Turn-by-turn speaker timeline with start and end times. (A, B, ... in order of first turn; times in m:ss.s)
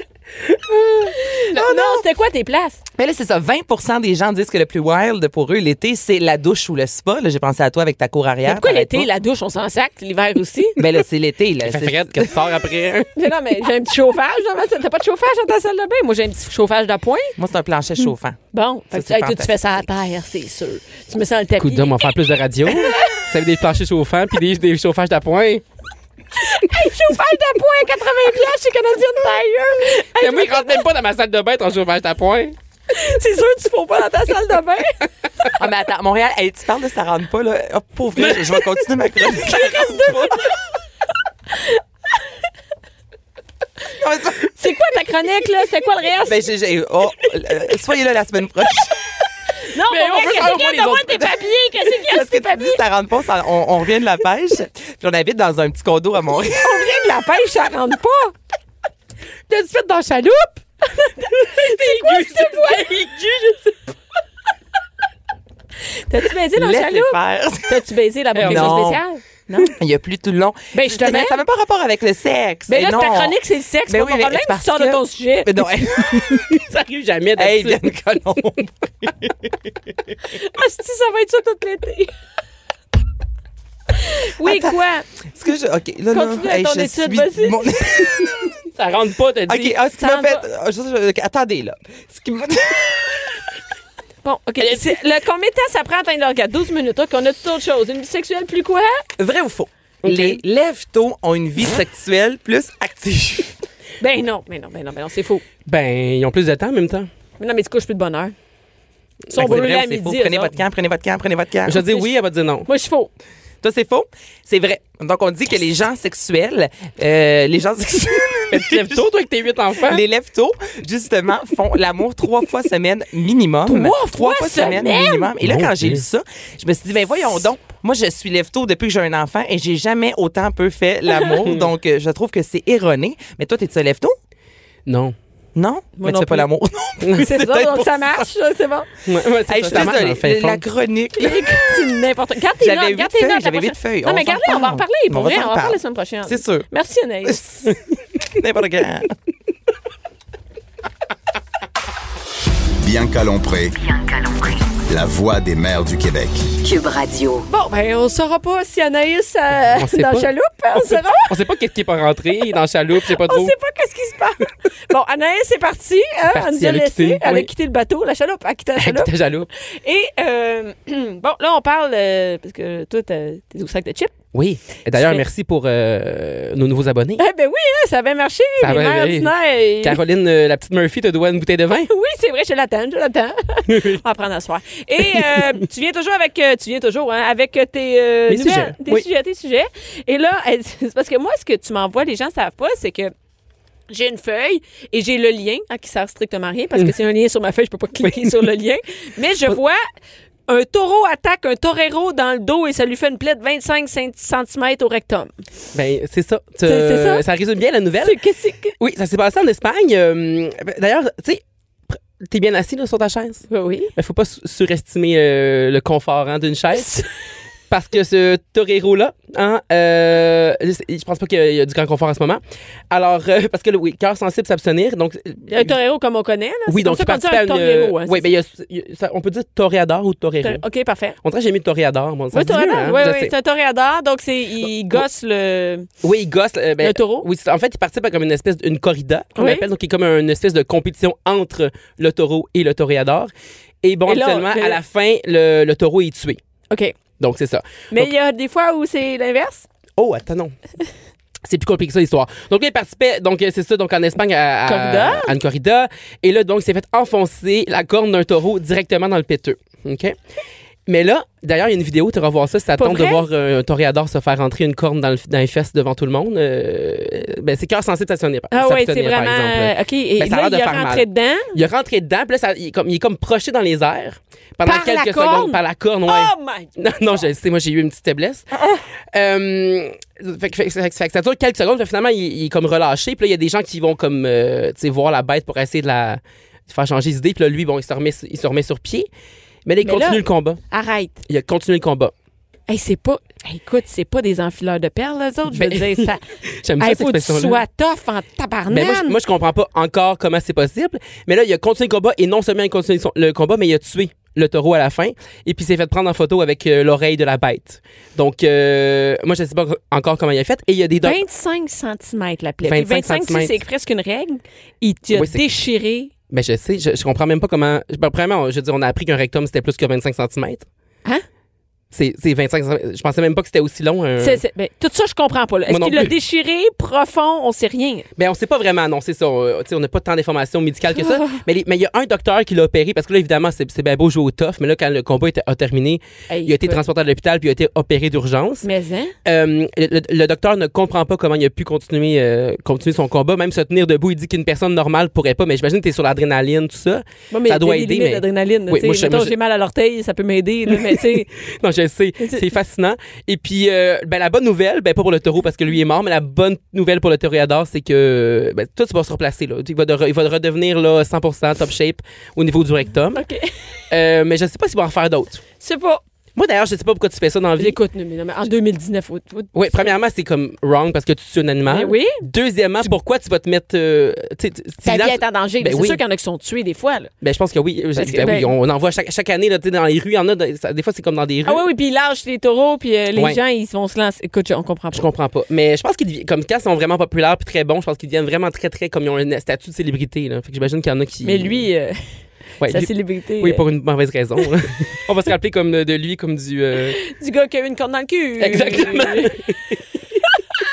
0:00.7-0:01.1 A
0:01.1-0:02.8 B
0:01.5-0:02.0 C
0:03.0-0:09.1 C
0:08.5-0:10.8 B
0:10.8-0:12.3 C
0:11.6-0:13.1 A
0:13.2-0:17.4 B
0:17.4-0:18.4 C
0:18.5-0:23.2 B
0:18.9-0:19.5 C
0:21.6-0:25.6 A
0:26.4-0:30.8 B
0:30.2-0:32.6 A
0:32.9-0:35.1 B
0:35.6-0:40.2 C
0:39.3-0:40.6 B
0:41.5-0:41.8 B
0:44.0-0:44.5 C
0:44.5-0:46.4 B
0:46.2-0:49.0 C
0:49.7-0:52.8 B
0:49.9-0:51.3 A
0:52.0-0:56.9 C
0:56.6-0:58.3 B
0:59.5-1:00.5 A
1:00.8-1:03.7 B
1:01.8-1:03.2 A
1:06.1-1:09.8 B
1:06.5-1:07.8 C
1:08.4-1:09.0 A
1:08.4-1:09.0 C
1:09.6-1:16.6 C
1:10.7-1:11.4 B
1:12.7-1:15.7 B
1:16.3-1:17.8 A
1:17.4-1:19.7 C
1:20.3-1:22.1 B
1:23.9-1:25.1 B
1:24.4-1:24.8 C
1:25.3-1:28.6 C
1:26.1-1:27.8 B
1:28.8-1:29.8 A
1:29.5-1:33.3 C
1:29.9-1:30.4 B
1:34.2-1:39.1 B
1:39.2-1:43.6 C
1:40.0-1:40.4 A
1:44.0-1:45.4 B
1:45.7-1:47.1 A
1:47.4-1:48.3 B
1:49.3-1:49.7 A
1:49.3-1:50.5 B
1:49.4-1:51.8 C
1:51.6-1:52.7 A
1:52.7-1:53.1 B
1:53.6-1:59.0 C
1:58.5-2:00.0 A
1:59.8-2:14.2 C
2:03.7-2:05.3 B
2:05.4-2:06.0 A
2:14.9-2:15.2 A
2:15.6-2:18.3 C
2:16.0-2:16.5 B
2:17.1-2:18.9 B
2:19.1-2:20.6 A
2:19.5-2:21.8 C
2:21.2-2:27.8 B
2:22.6-2:26.7 C
2:28.2-2:29.1 C
2:32.8-2:33.8 D
2:33.7-2:34.8 E
2:34.9-2:36.5 D
2:36.6-2:37.5 E
2:37.5-2:41.4 B
2:39.7-2:40.3 A
2:40.8-2:43.5 A
2:43.0-2:54.2 B
2:46.3-2:47.5 A
2:48.8-2:49.5 A
2:54.3-2:57.2 A
2:54.9-2:55.2 B
2:57.2-3:00.0 B
2:58.6-3:01.9 A
3:01.9-3:13.1 B
3:03.7-3:04.0 A
3:08.3-3:09.1 A
3:13.9-3:19.8 B
3:18.0-3:18.4 A
3:20.5-3:25.3 B
3:25.7-3:28.2 A
3:26.7-3:27.2 B
3:28.0-3:28.8 B
3:28.8-3:37.0 A
3:33.5-3:33.9 B
3:36.7-3:37.1 B
3:37.7-3:45.8 A
3:45.5-3:48.3 B
3:46.7-3:50.6 A
3:50.4-3:51.2 B
3:51.2-3:53.3 A
3:52.3-3:55.9 B
3:56.0-4:03.3 A
3:56.8-3:57.3 B
3:59.4-3:59.7 B
4:03.8-4:06.4 A
4:04.1-4:04.8 B
4:06.7-4:07.0 B
4:07.2-4:08.1 A
4:07.9-4:09.7 B
4:10.0-4:10.6 A
4:11.4-4:20.2 A
4:14.7-4:15.3 B
4:20.9-4:38.5 A
4:22.8-4:23.2 B
4:28.5-4:31.6 B
4:34.6-4:37.3 B
4:39.1-4:49.1 A
4:49.7-4:50.6 A
4:49.8-4:51.2 B
4:51.3-4:52.1 A
4:52.7-4:56.3 B
4:55.5-4:57.6 A
4:56.8-4:59.2 B
4:58.7-5:11.2 A
5:11.0-5:16.1 B
5:12.6-5:13.6 A
5:15.1-5:15.4 A
5:16.3-5:20.7 A
5:21.9-5:24.4 A
5:24.2-5:28.1 B
5:25.7-5:26.1 A
5:28.2-5:38.7 A
5:31.0-5:31.4 B
5:36.3-5:36.8 B
5:38.6-5:39.2 B
5:39.2-5:49.3 A
5:47.3-5:51.3 B
5:51.6-6:03.2 A
5:52.2-5:52.5 B
6:03.2-6:03.5 B
6:03.9-6:05.4 A
6:05.6-6:06.0 B
6:06.4-6:07.8 A
6:07.6-6:09.9 B
6:09.5-6:16.0 A
6:11.7-6:12.2 B
6:14.8-6:17.1 B
6:17.2-6:21.7 A
6:18.0-6:18.5 B
6:21.5-6:25.1 B
6:23.2-6:23.4 A
6:24.9-6:31.7 A
6:31.2-6:32.0 B
6:32.6-6:37.0 A
6:32.6-6:33.6 B
6:36.9-6:39.4 B
6:38.4-6:39.8 A